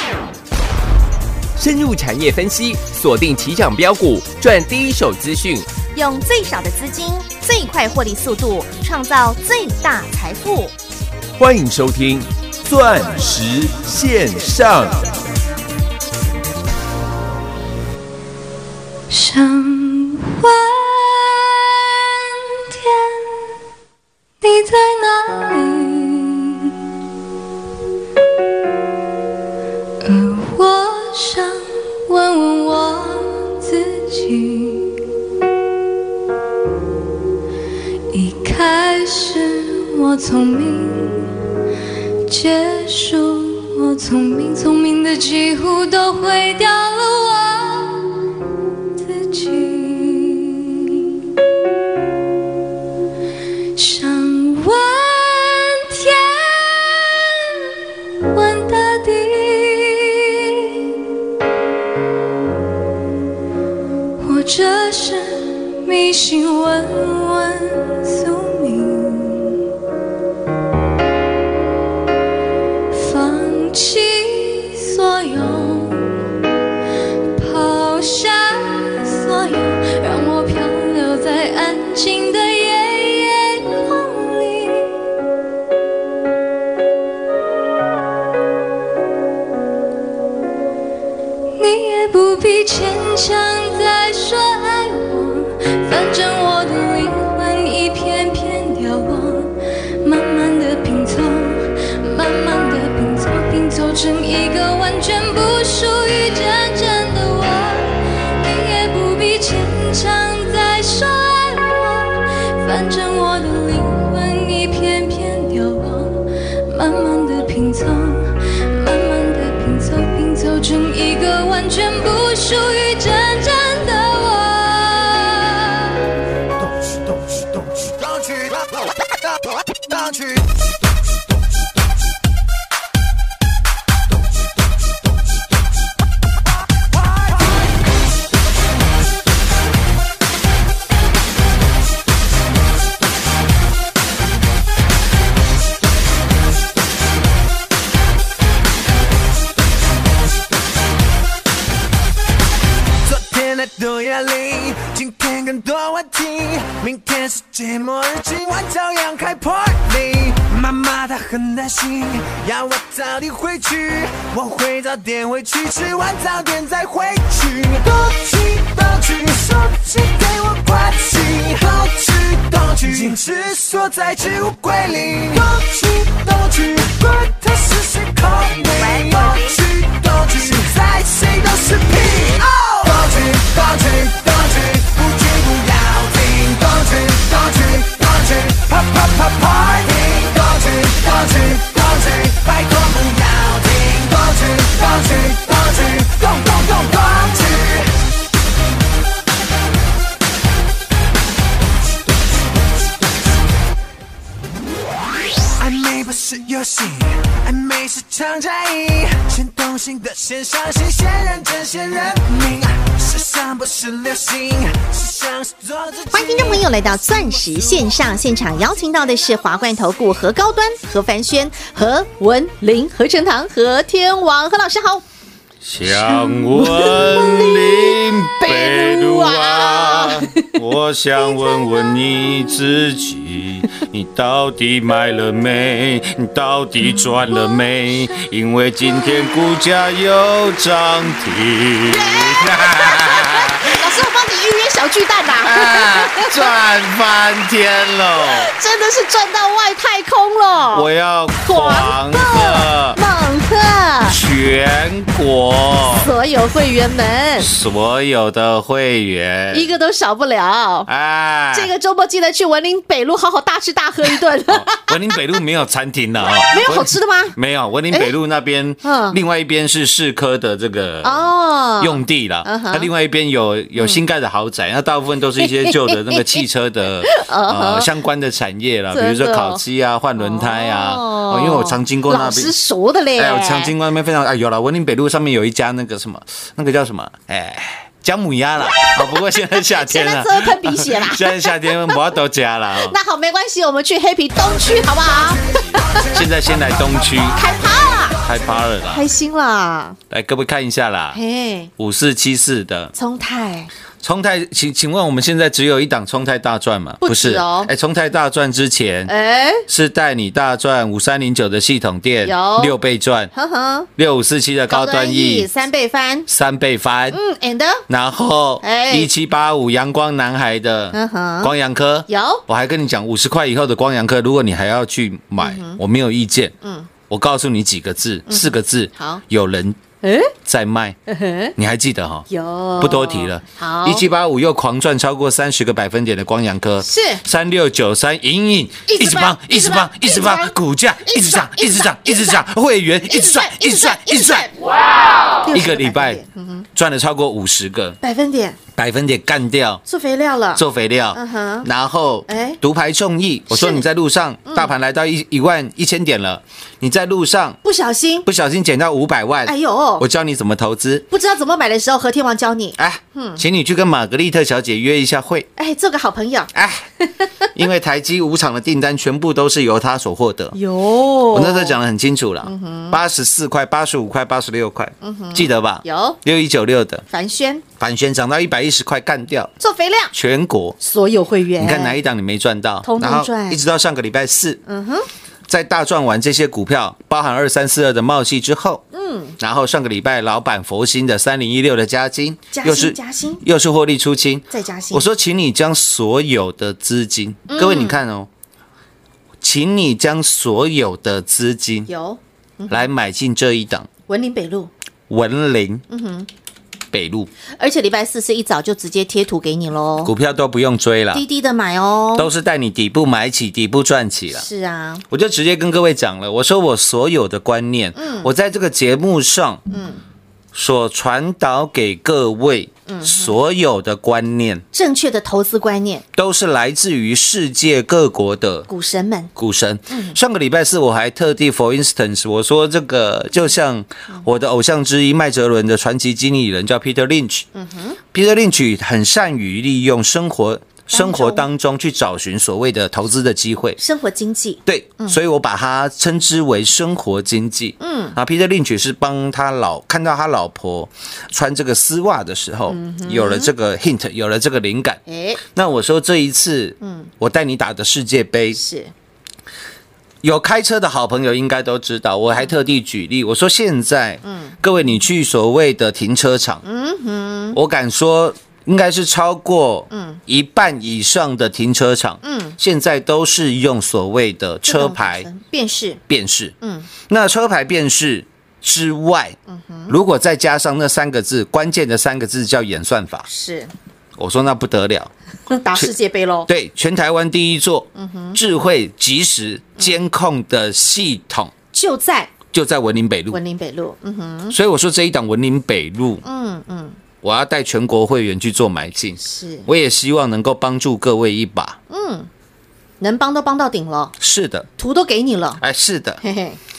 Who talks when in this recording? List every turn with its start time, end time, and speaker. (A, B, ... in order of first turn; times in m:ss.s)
0:01.6-0:05.7 A
0:06.0-0:10.7 B
0:11.4-0:15.1 A
0:19.1-0:23.5 C
0:24.4-0:26.7 C
0:30.0-0:35.0 C
0:38.1-0:41.3 C
0:42.3-0:48.3 C
0:49.0-0:51.2 C
0:53.8-0:57.7 C
0:58.3-1:00.9 C
1:04.2-1:09.6 C
1:12.9-1:16.1 C
1:17.4-1:25.0 C
1:31.6-2:06.0 C
2:06.6-2:08.9 D
2:09.8-2:10.5 D
2:33.0-3:17.9 D
2:58.8-2:59.5 B
3:25.6-3:37.8 D
3:36.1-3:45.0 B
3:45.6-4:03.8 E
3:45.8-3:50.5 B
3:51.2-3:52.0 B
3:57.3-3:57.6 B
3:59.0-3:59.4 B
4:01.8-4:06.5 B
4:05.4-4:08.5 E
4:08.2-4:10.9 B
4:10.7-4:13.0 E
4:11.4-4:14.2 B
4:14.1-4:16.1 E
4:16.0-4:17.5 B
4:17.4-4:19.7 E
4:19.5-4:20.9 B
4:20.9-4:21.7 E
4:21.5-4:25.2 B
4:24.5-4:42.6 E
4:26.5-4:27.4 B
4:28.8-4:29.2 B
4:31.0-4:32.9 B
4:33.8-4:34.0 B
4:35.4-4:36.4 B
4:37.0-4:37.9 B
4:38.9-4:39.6 B
4:40.2-4:43.7 B
4:43.2-4:53.0 E
4:48.8-4:52.0 B
4:52.8-4:55.5 B
4:55.2-4:57.0 D
4:56.1-4:57.5 E
4:57.4-4:58.2 B
4:58.2-4:59.1 E
4:58.9-5:00.0 B
5:00.1-5:01.2 E
5:01.1-5:01.7 B
5:01.8-5:02.9 E
5:03.0-5:03.7 B
5:04.0-5:09.1 E
5:07.0-5:07.7 B
5:09.1-5:09.7 B
5:09.7-5:13.3 E
5:12.2-5:12.8 B
5:13.3-5:13.9 B
5:14.0-5:15.5 E
5:14.7-5:16.3 B
5:16.3-5:17.2 E
5:17.1-5:17.8 B
5:17.9-5:26.5 E
5:18.6-5:19.1 B
5:20.9-5:21.5 B
5:22.1-5:22.4 B
5:25.4-5:25.8 B
5:26.6-5:26.9 B
5:27.1-5:29.8 E
5:28.3-5:29.2 B
5:30.0-5:30.3 B
5:30.4-5:31.0 E
5:31.1-5:31.6 B
5:31.6-5:32.3 E
5:32.3-5:34.0 B
5:32.8-5:44.5 E
5:36.8-5:37.2 B
5:38.9-5:42.4 B
5:43.1-5:44.5 B
5:45.4-5:46.7 B
5:45.5-5:46.2 E
5:46.8-5:48.0 E
5:48.0-5:48.6 B
5:48.8-5:49.8 E
5:49.9-5:51.7 B
5:50.6-5:57.6 E
5:52.3-5:52.6 B
5:53.5-5:53.8 B
5:54.5-5:54.7 B
5:57.6-5:58.3 B
5:58.2-6:01.1 E
5:59.4-6:00.0 B
6:01.1-6:03.4 B
6:02.8-6:05.5 E
6:05.6-6:07.5 B
6:06.5-6:06.8 E
6:07.6-6:10.6 E
6:10.5-6:11.8 B
6:11.3-6:17.1 E
6:12.4-6:13.0 B
6:15.0-6:16.2 B
6:17.1-6:17.6 B
6:17.8-6:19.5 E
6:19.6-6:20.1 B
6:20.1-6:20.8 E
6:20.8-6:22.0 B
6:21.6-6:24.6 E
6:22.8-6:23.6 B
6:24.7-6:25.1 B
6:25.5-6:28.8 E
6:28.9-6:29.4 B
6:29.4-6:38.3 E
6:32.5-6:33.4 B
6:34.5-6:35.1 B
6:37.5-6:38.0 B
6:39.4-6:41.9 E
6:41.9-6:42.9 B
6:42.7-6:43.9 E
6:44.1-6:44.7 B
6:45.1-6:45.8 E
6:45.9-6:46.3 B
6:46.9-6:47.3 E
6:47.6-6:50.1 B
6:50.0-6:51.2 E
6:51.1-6:52.3 B
6:52.2-6:54.4 E
6:54.3-6:55.0 B
6:55.1-6:59.6 E
6:58.0-6:58.3 B
6:59.7-7:00.0 B
7:00.5-7:04.6 E
7:02.9-7:03.4 B
7:04.7-7:06.0 B
7:06.1-7:08.7 E
7:08.7-7:09.3 B
7:09.4-7:17.5 E
7:09.9-7:10.2 B
7:17.5-7:18.0 B
7:18.1-7:23.8 E
7:20.9-7:21.5 B
7:23.8-7:25.2 B
7:24.7-7:38.6 E
7:27.8-7:28.2 B
7:32.7-7:33.5 B
7:35.1-7:35.4 B
7:36.8-7:37.1 B
7:38.6-7:38.9 B
7:40.2-7:46.6 E
7:44.2-7:44.6 B
7:46.6-7:47.6 B
7:47.5-7:55.3 E
7:49.9-7:50.2 B
7:52.2-7:52.6 B
7:54.7-7:56.0 B
7:56.1-7:56.5 E
7:56.6-7:56.9 B
7:57.1-7:59.4 E
7:59.5-8:00.0 B
7:59.9-8:03.3 E
8:03.3-8:03.7 B
8:04.2-8:05.1 E
8:05.5-8:06.5 B
8:06.5-8:11.5 E
8:08.0-8:08.4 B
8:11.7-8:12.3 B
8:12.5-8:13.4 E
8:13.3-8:14.6 B
8:14.5-8:16.2 E
8:16.2-8:17.0 B
8:17.2-8:21.8 E
8:19.2-8:19.7 B
8:21.9-8:22.3 B
8:23.0-8:24.1 B
8:24.2-8:24.7 E
8:24.8-8:25.6 B
8:25.6-8:26.2 E
8:26.2-8:26.6 B